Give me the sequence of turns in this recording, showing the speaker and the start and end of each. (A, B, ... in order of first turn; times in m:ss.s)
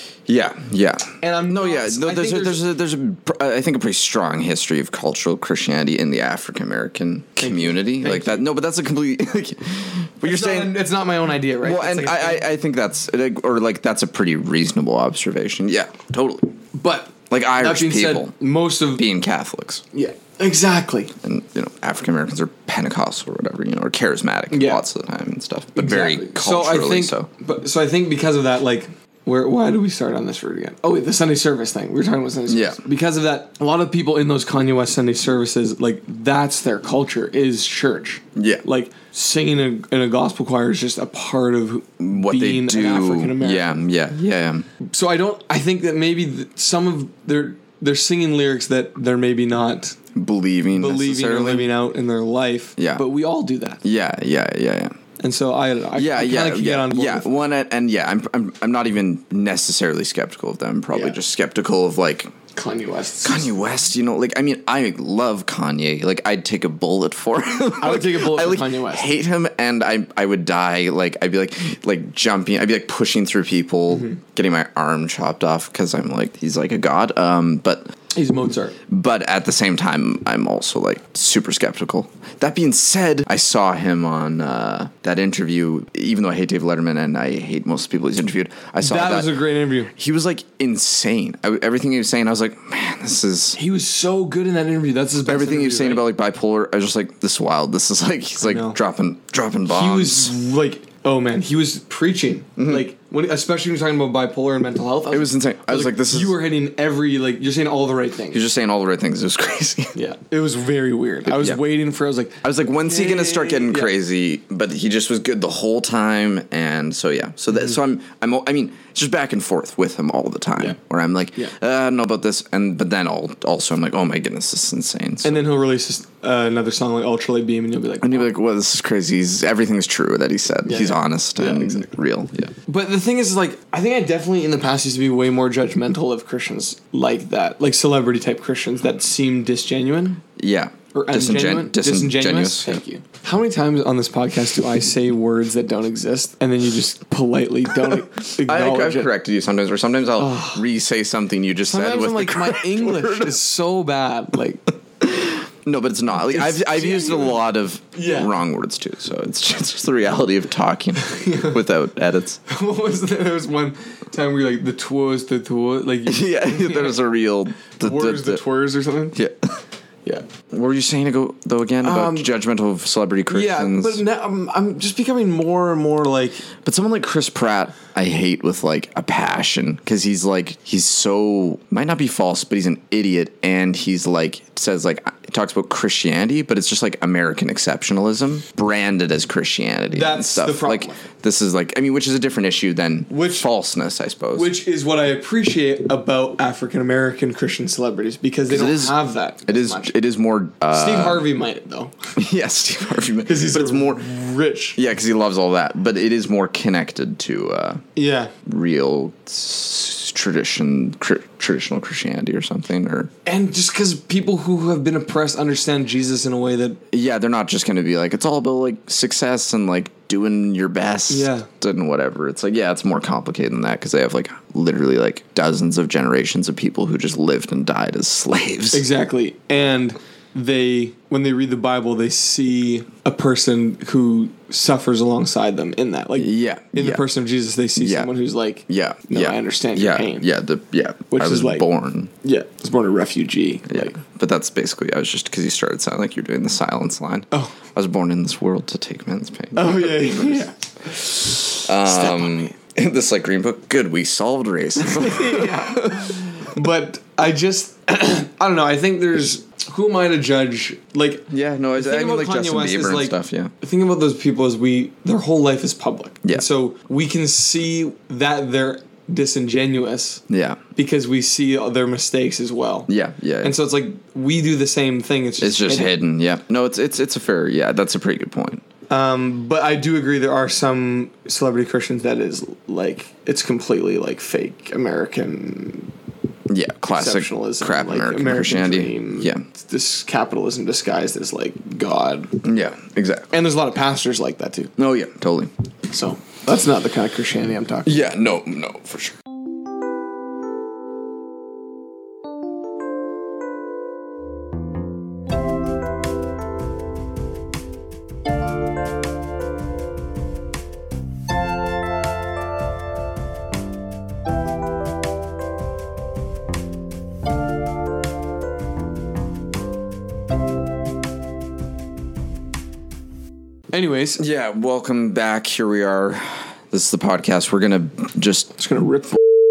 0:00.3-0:10.8 A
0:01.2-0:02.6 B
0:07.4-0:08.4 B
0:10.2-0:12.4 B
0:11.6-0:16.6 A
0:16.8-0:19.0 B
0:17.3-0:18.3 A
0:19.0-0:19.8 A
0:19.9-0:21.1 B
0:21.2-0:27.3 A
0:24.5-0:24.8 B
0:25.8-0:43.8 B
0:32.5-0:32.8 A
0:38.4-0:38.6 A
0:42.0-0:44.7 A
0:44.8-0:50.0 B
0:50.1-0:51.7 A
0:50.7-0:53.8 B
0:52.8-0:53.0 A
0:53.8-0:54.9 A
0:55.2-0:57.3 B
0:55.9-1:02.3 A
1:00.9-1:01.2 B
1:02.5-1:03.7 B
1:03.2-1:17.8 A
1:07.8-1:09.1 B
1:18.2-1:18.8 B
1:18.9-1:29.4 A
1:28.8-1:29.9 B
1:29.9-1:33.6 A
1:33.5-1:36.0 B
1:35.2-1:40.3 A
1:38.4-1:38.8 B
1:39.7-1:48.4 B
1:42.6-1:42.9 A
1:45.1-1:46.4 A
1:48.3-1:49.9 A
1:49.9-1:53.9 B
1:51.2-1:51.6 A
1:52.4-2:05.4 A
2:05.2-2:08.3 B
2:08.0-2:12.5 A
2:10.6-2:11.9 B
2:12.7-2:20.2 B
2:20.4-2:22.8 A
2:20.9-2:29.1 B
2:27.8-2:33.4 A
2:30.2-2:30.6 B
2:31.7-2:34.6 B
2:35.0-2:42.4 A
2:36.2-2:38.3 B
2:41.0-2:41.6 B
2:42.5-2:47.0 B
2:46.1-2:48.4 A
2:47.8-2:49.2 B
2:49.1-2:49.6 A
2:50.5-2:54.0 A
2:51.8-2:52.3 B
2:53.3-2:56.4 B
2:56.6-3:14.5 A
3:09.9-3:11.1 B
3:13.1-3:13.5 B
3:14.4-3:19.9 B
3:18.5-3:21.2 A
3:20.7-3:22.1 B
3:22.2-3:24.1 A
3:23.2-3:24.8 B
3:24.8-3:27.8 A
3:28.0-3:28.3 B
3:28.4-3:33.1 A
3:33.2-3:36.8 B
3:36.9-3:48.9 A
3:41.1-3:41.5 B
3:48.7-4:00.3 B
3:56.2-3:57.0 A
3:57.8-3:58.1 A
3:58.7-4:02.1 A
4:01.1-4:01.6 B
4:02.2-4:04.0 B
4:03.7-4:10.5 A
4:09.6-4:12.5 B
4:11.6-4:16.2 A
4:14.8-4:30.2 B
4:21.3-4:23.5 A
4:30.3-4:30.6 A
4:30.8-4:32.9 B
4:32.9-4:33.5 A
4:33.4-4:35.9 B
4:35.4-4:38.6 A
4:38.9-4:45.9 B
4:46.5-4:49.4 A
4:46.9-4:52.4 B
4:52.4-4:53.3 A
4:53.3-4:54.7 B
4:54.8-4:55.5 A
4:55.9-4:58.1 B
4:57.9-4:59.2 A
5:23.7-5:24.2 B
5:24.2-5:28.5 A
5:28.6-5:29.2 B